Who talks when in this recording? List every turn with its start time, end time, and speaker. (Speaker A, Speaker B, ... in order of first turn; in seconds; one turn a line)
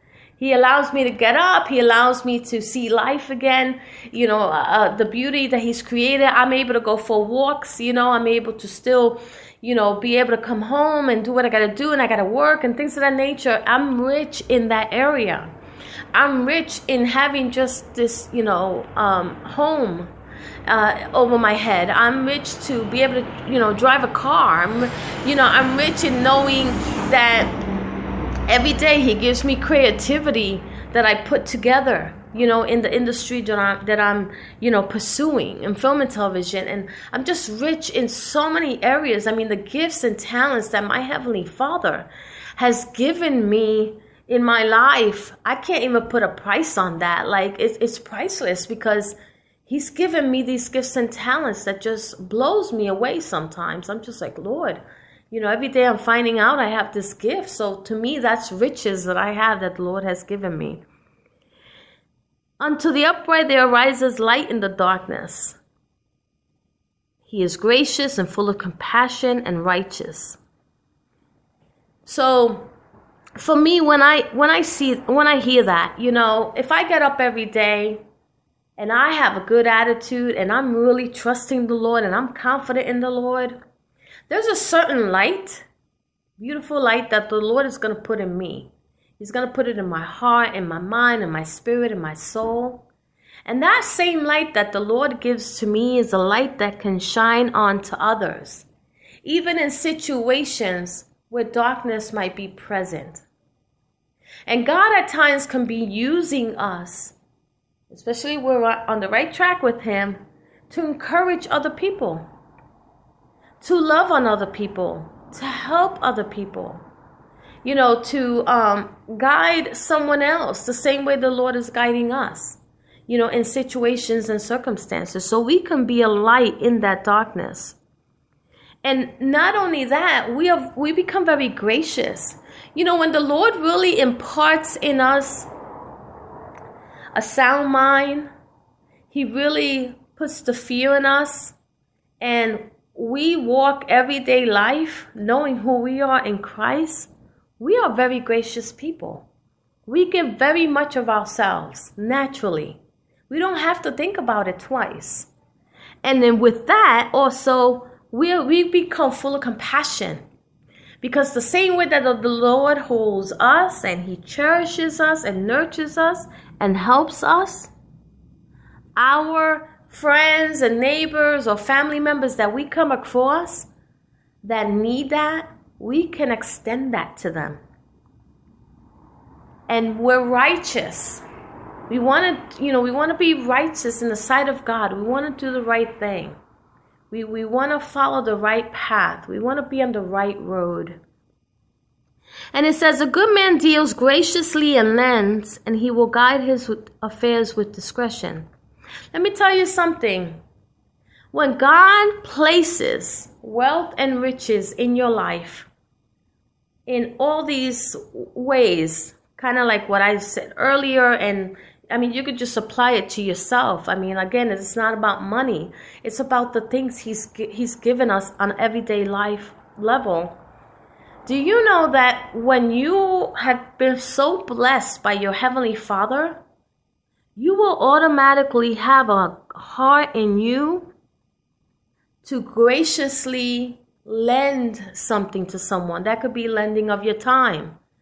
Speaker A: 0.4-15.5
Speaker A: 16.1-20.1
Speaker A: 20.7-27.6
Speaker A: 28.5-49.2
Speaker A: 49.7-60.8
Speaker A: 62.6-65.6
Speaker A: 67.2-70.4
Speaker A: 72.1-72.7
Speaker A: 73.4-78.0
Speaker A: 78.8-83.6
Speaker A: 84.3-85.7
Speaker A: 86.4-92.8
Speaker A: 93.5-98.7
Speaker A: 99.2-103.2
Speaker A: 104.5-107.2
Speaker A: 107.9-112.2
Speaker A: 113.6-116.8
Speaker A: 117.6-127.8
Speaker A: 128.8-135.5
Speaker A: 137.2-138.3
Speaker A: 139.1-141.6
Speaker A: 142.2-149.3
Speaker A: 149.9-155.3
Speaker A: 156.0-160.2
Speaker A: 161.0-167.7
Speaker A: 169.0-173.7
Speaker A: 174.4-177.6
Speaker A: 179.7-181.2
Speaker A: 181.9-186.4
Speaker A: 187.1-191.0
Speaker A: 192.5-198.5
Speaker A: 199.1-200.4
Speaker A: 201.3-205.7
Speaker A: 206.9-220.4
Speaker A: 221.3-226.4
Speaker A: 227.4-230.9
Speaker A: 232.2-237.8